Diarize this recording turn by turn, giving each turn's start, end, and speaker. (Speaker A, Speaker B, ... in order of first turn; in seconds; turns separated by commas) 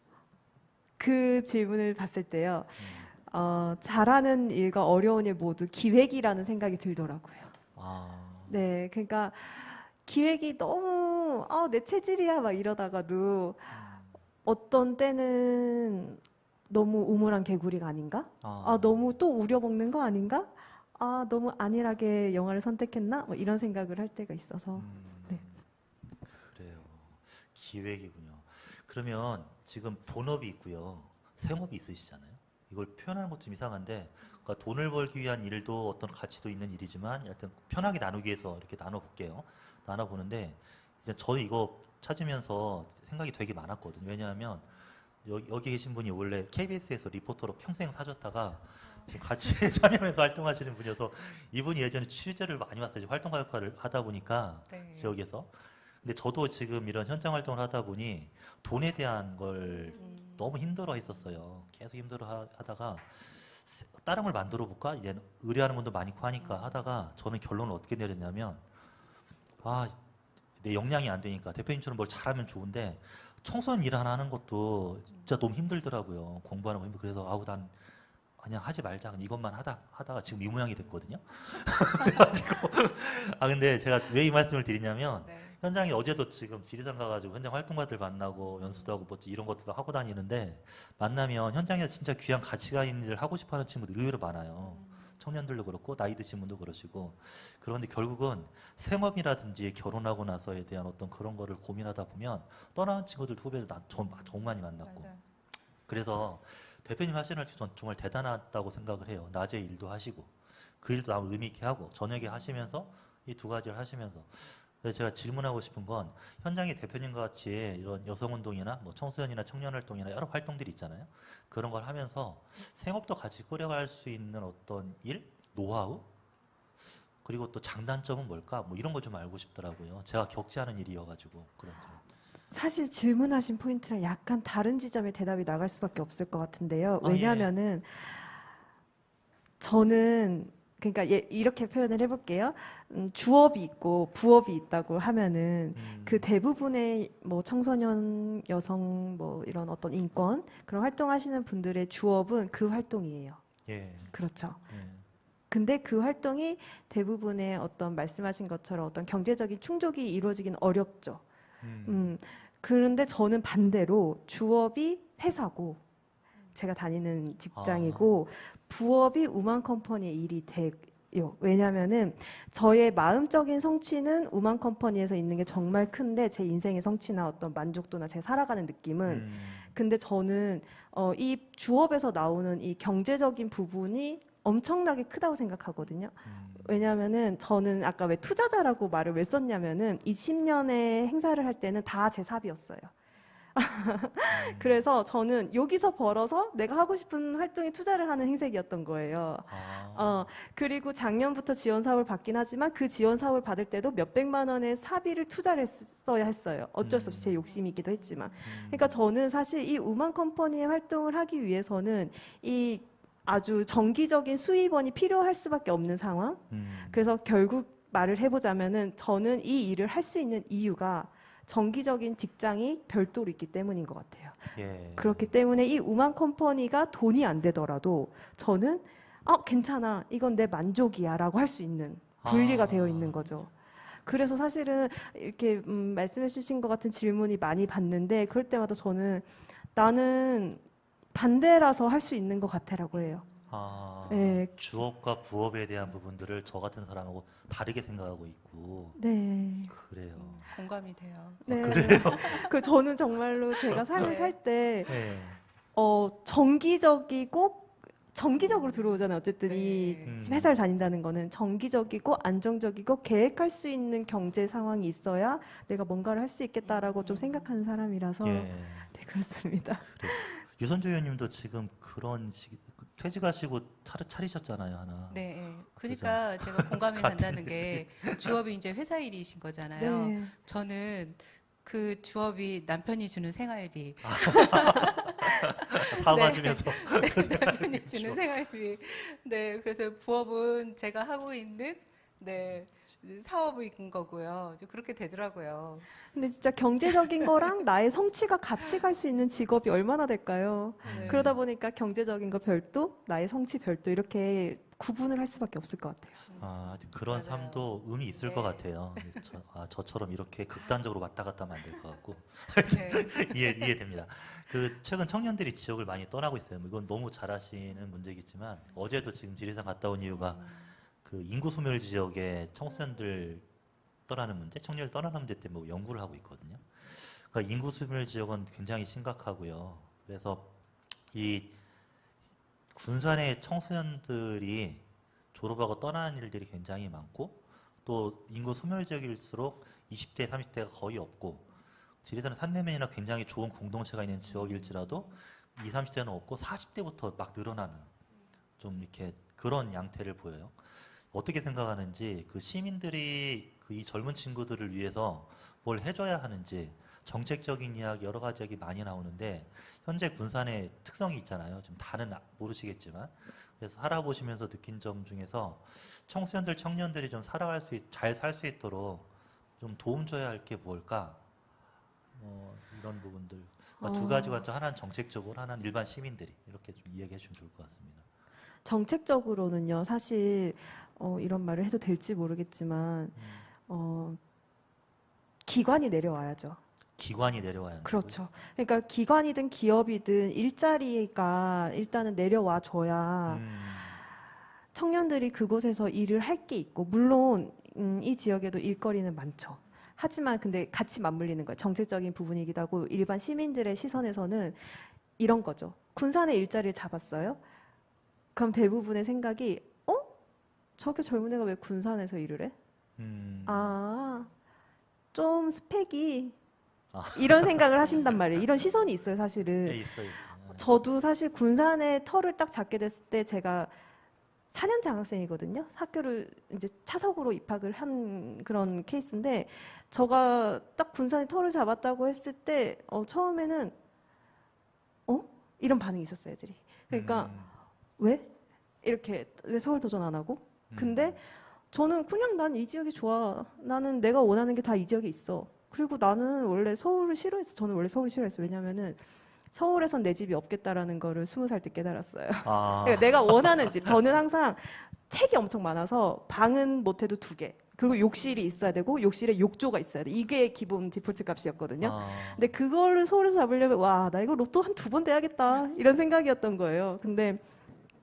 Speaker A: 1.0-7.5, Speaker B: 2.8-3.1, Speaker B: 7.8-8.6, Speaker A: 8.5-13.7, Speaker B: 13.7-14.1, Speaker A: 14.4-25.4, Speaker B: 18.4-19.1, Speaker B: 24.7-25.6, Speaker B: 26.2-44.7, Speaker B: 45.2-68.6, Speaker C: 54.7-55.1, Speaker C: 60.0-60.7, Speaker C: 66.4-66.9, Speaker B: 69.6-70.0, Speaker B: 70.6-77.8, Speaker B: 78.4-105.1, Speaker C: 85.2-85.6, Speaker C: 88.5-89.0, Speaker C: 94.6-95.2, Speaker C: 104.1-105.2, Speaker B: 105.9-126.1, Speaker C: 112.2-112.6, Speaker B: 127.2-132.0, Speaker A: 132.5-138.4, Speaker B: 137.0-137.5, Speaker A: 139.6-153.4, Speaker B: 145.7-146.3, Speaker B: 153.7-154.2, Speaker A: 154.1-154.6, Speaker B: 154.7-155.0, Speaker A: 155.5-161.2, Speaker B: 161.6-162.1, Speaker A: 161.8-165.8, Speaker A: 166.5-192.9, Speaker B: 167.5-168.2, Speaker B: 179.1-179.8, Speaker B: 186.2-186.9, Speaker A: 193.5-233.5, Speaker B: 194.3-194.8, Speaker B: 199.5-200.3, Speaker B: 206.8-207.4, Speaker B: 208.4-209.0, Speaker B: 216.5-217.1, Speaker B: 224.5-225.3, Speaker B: 232.2-233.2, Speaker A: 234.0-240.6, Speaker A: 241.1-243.2, Speaker C: 243.0-243.3, Speaker B: 243.5-249.0, Speaker A: 244.1-244.5, Speaker A: 248.9-249.7, Speaker B: 249.7-250.6, Speaker C: 250.1-252.5, Speaker A: 251.4-254.9, Speaker B: 251.5-252.5, Speaker C: 254.0-254.3, Speaker B: 254.9-255.4, Speaker A: 255.7-270.4, Speaker C: 258.6-260.1, Speaker B: 260.0-260.6, Speaker C: 266.6-267.5, Speaker B: 268.2-268.9, Speaker B: 269.8-275.3, Speaker C: 275.1-295.9, Speaker B: 275.8-278.3, Speaker A: 279.8-280.3, Speaker B: 284.0-288.2, Speaker A: 296.1-306.2, Speaker C: 296.9-297.5, Speaker C: 300.8-301.3, Speaker B: 300.8-301.4, Speaker C: 306.3-309.3, Speaker B: 306.4-320.5, Speaker C: 312.6-313.7, Speaker C: 320.1-320.7, Speaker B: 321.0-323.4, Speaker B: 324.1-330.5, Speaker B: 331.1-331.5, Speaker B: 332.7-341.4, Speaker B: 342.0-347.9, Speaker C: 344.3-345.1, Speaker B: 348.6-369.1, Speaker B: 369.6-371.2, Speaker B: 372.1-378.0, Speaker A: 373.8-374.5, Speaker A: 378.6-384.2, Speaker B: 383.1-383.4, Speaker A: 385.4-386.6, Speaker B: 387.0-388.2, Speaker A: 387.8-393.4, Speaker B: 393.3-394.0, Speaker A: 394.7-407.4, Speaker A: 408.3-410.1, Speaker A: 410.8-412.5, Speaker B: 413.0-413.8, Speaker A: 413.4-414.3, Speaker A: 415.1-416.4, Speaker B: 416.9-418.1, Speaker A: 417.1-419.9, Speaker B: 419.6-420.7, Speaker A: 420.5-423.7, Speaker A: 424.5-433.7, Speaker A: 435.1-437.4, Speaker B: 436.9-437.5, Speaker A: 438.0-438.3, Speaker A: 438.8-467.4, Speaker B: 440.7-441.2, Speaker B: 452.4-453.6, Speaker B: 461.8-462.5